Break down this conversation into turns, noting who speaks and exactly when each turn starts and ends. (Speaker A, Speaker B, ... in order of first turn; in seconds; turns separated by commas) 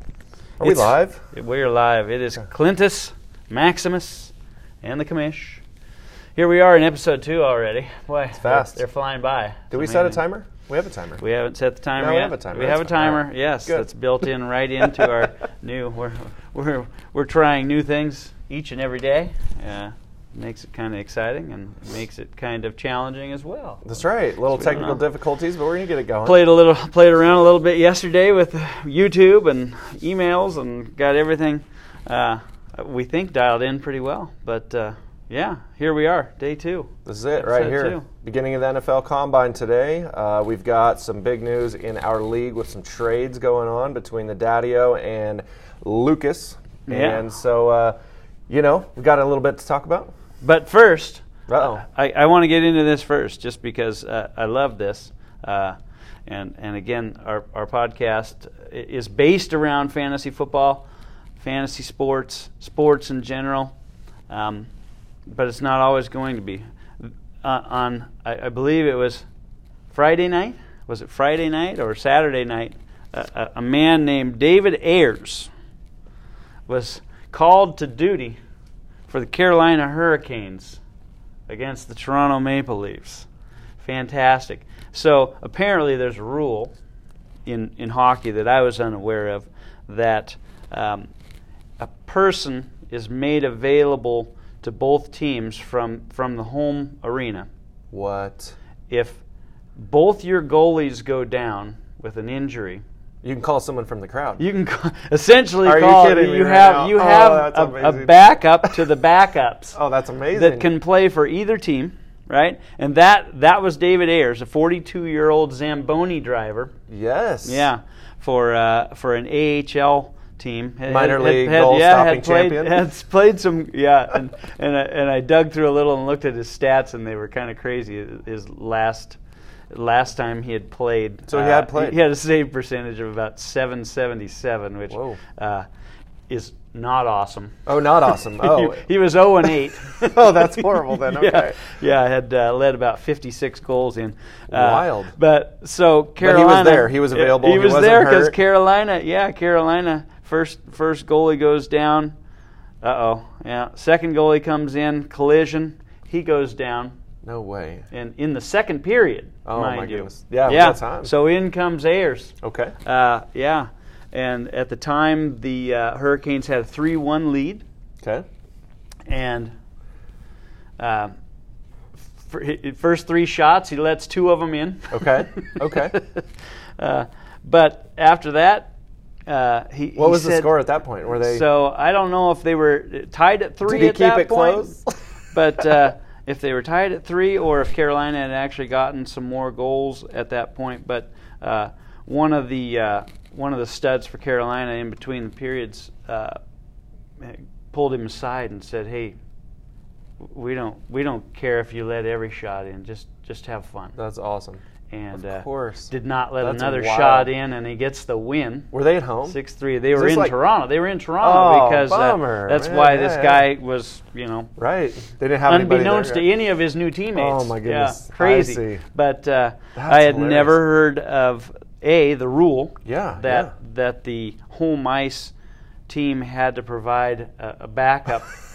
Speaker A: 0.6-1.2, Speaker B: 0.6-5.6, Speaker B: 6.4-10.2, Speaker A: 8.3-8.8, Speaker A: 9.7-11.2, Speaker B: 11.2-25.0, Speaker A: 12.0-13.9, Speaker A: 14.8-15.2, Speaker A: 23.9-26.4, Speaker B: 26.2-38.1, Speaker A: 37.1-48.0, Speaker B: 46.9-47.2, Speaker A: 48.5-50.1, Speaker B: 50.4-60.9, Speaker A: 51.5-51.8, Speaker B: 61.4-63.7, Speaker B: 64.3-64.7, Speaker B: 65.3-69.2, Speaker B: 69.9-75.5, Speaker B: 76.7-78.4, Speaker B: 79.1-80.8, Speaker B: 81.5-83.3, Speaker B: 83.8-86.7, Speaker B: 87.5-91.1, Speaker B: 91.8-97.5, Speaker A: 97.9-98.6, Speaker B: 98.9-99.2, Speaker B: 99.8-102.8, Speaker A: 103.2-104.4, Speaker B: 104.4-109.8, Speaker A: 105.7-108.8, Speaker A: 109.8-110.7, Speaker B: 110.3-116.7, Speaker A: 116.9-117.7, Speaker B: 117.4-129.2, Speaker A: 120.9-122.8, Speaker B: 129.7-135.7, Speaker A: 131.3-132.0, Speaker A: 134.9-135.2, Speaker B: 136.3-152.1, Speaker A: 137.7-138.8, Speaker A: 140.0-141.6, Speaker A: 144.5-145.2, Speaker A: 146.2-148.4, Speaker B: 152.8-156.9, Speaker A: 157.2-157.9, Speaker B: 157.9-162.3, Speaker A: 159.5-161.1, Speaker A: 162.4-162.8, Speaker B: 162.8-167.6, Speaker B: 169.1-169.5, Speaker B: 170.8-171.1, Speaker B: 172.2-176.2, Speaker A: 174.9-176.0, Speaker B: 176.8-178.7, Speaker B: 179.3-184.8, Speaker A: 180.0-181.4, Speaker A: 183.7-184.8, Speaker B: 185.3-196.4, Speaker B: 197.2-199.2, Speaker B: 200.2-204.0, Speaker A: 204.0-204.6, Speaker B: 204.9-208.7, Speaker A: 205.1-207.3, Speaker A: 208.7-209.4, Speaker B: 209.2-214.5, Speaker A: 209.9-210.3, Speaker A: 211.2-213.5, Speaker A: 214.6-216.3, Speaker B: 215.5-225.3, Speaker A: 217.2-218.8, Speaker A: 219.8-220.6, Speaker A: 222.8-223.5, Speaker B: 225.9-228.4